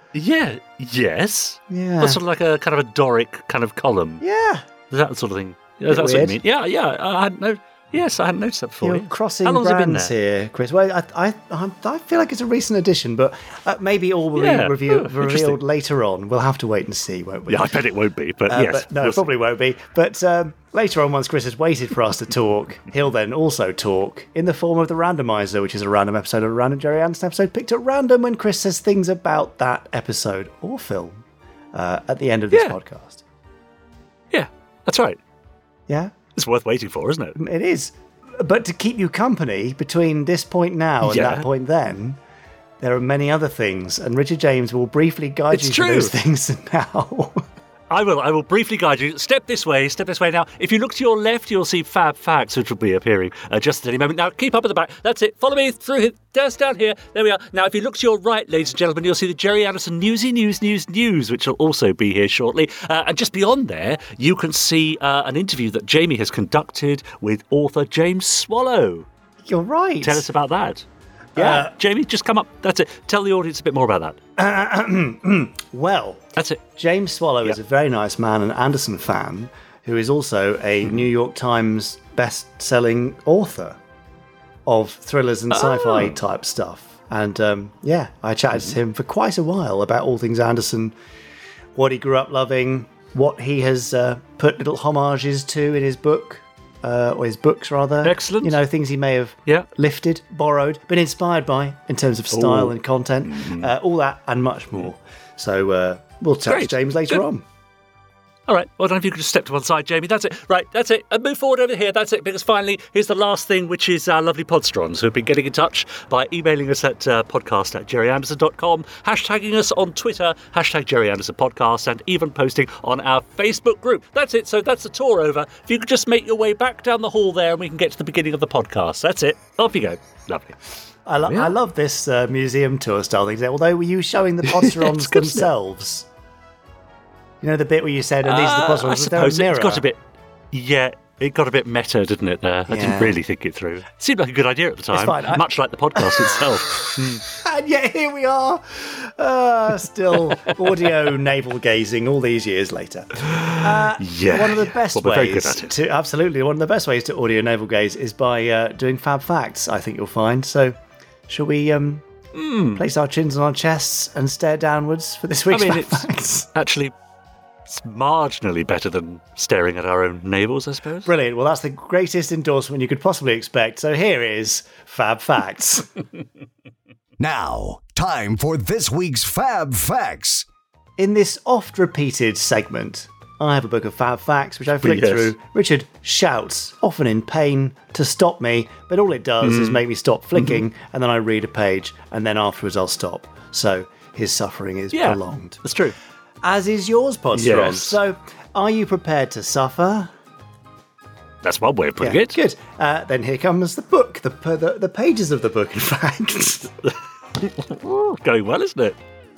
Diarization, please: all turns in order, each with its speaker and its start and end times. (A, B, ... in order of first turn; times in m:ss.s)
0:00.1-0:04.2 A
0:01.7-0:02.2 B
0:04.2-0:04.6 B
0:04.9-0:10.1 A
0:05.9-0:06.4 B
0:08.8-0:17.8 B
0:14.4-0:15.6 A
0:17.5-0:19.3 A
0:18.5-0:33.2 B
0:32.5-0:32.8 A
0:34.3-0:35.2 A
0:35.9-0:36.1 B
0:36.3-0:37.4 A
0:37.4-0:42.2 B
0:41.0-0:41.4 A
0:42.8-0:47.4 B
0:45.5-0:46.2 A
0:47.9-1:09.1 A
1:09.4-1:10.2 B
1:10.0-1:14.2 A
1:11.4-1:11.7 B
1:14.4-1:23.8 B
1:24.6-1:30.9 B
1:25.5-1:26.2 A
1:31.7-1:47.4 B
1:38.0-1:38.6 A
1:42.3-1:43.7 A
1:46.4-1:47.2 A
1:48.5-2:10.6 A
2:11.0-2:16.1 B
2:11.3-2:11.5 A
2:14.4-2:15.5 A
2:17.4-2:19.8 B
2:18.2-2:20.0 A
2:20.5-2:27.2 A
2:22.7-2:23.2 B
2:24.9-2:40.8 B
2:33.3-2:35.7 A
2:41.3-2:42.0 B
2:42.3-2:42.8 A
2:42.7-2:46.5 B
2:45.5-2:46.9 A
2:47.7-2:51.1 A
2:51.0-2:55.9 B
2:57.2-3:00.4 C
3:01.0-3:15.6 B
3:04.7-3:05.3 A
3:09.4-3:09.8 A
3:10.4-3:10.6 A
3:14.9-3:15.9 A
3:16.4-3:20.1 B
3:17.3-3:18.0 A
3:21.4-3:22.4 A
3:22.0-3:26.8 B
3:27.4-3:29.0 A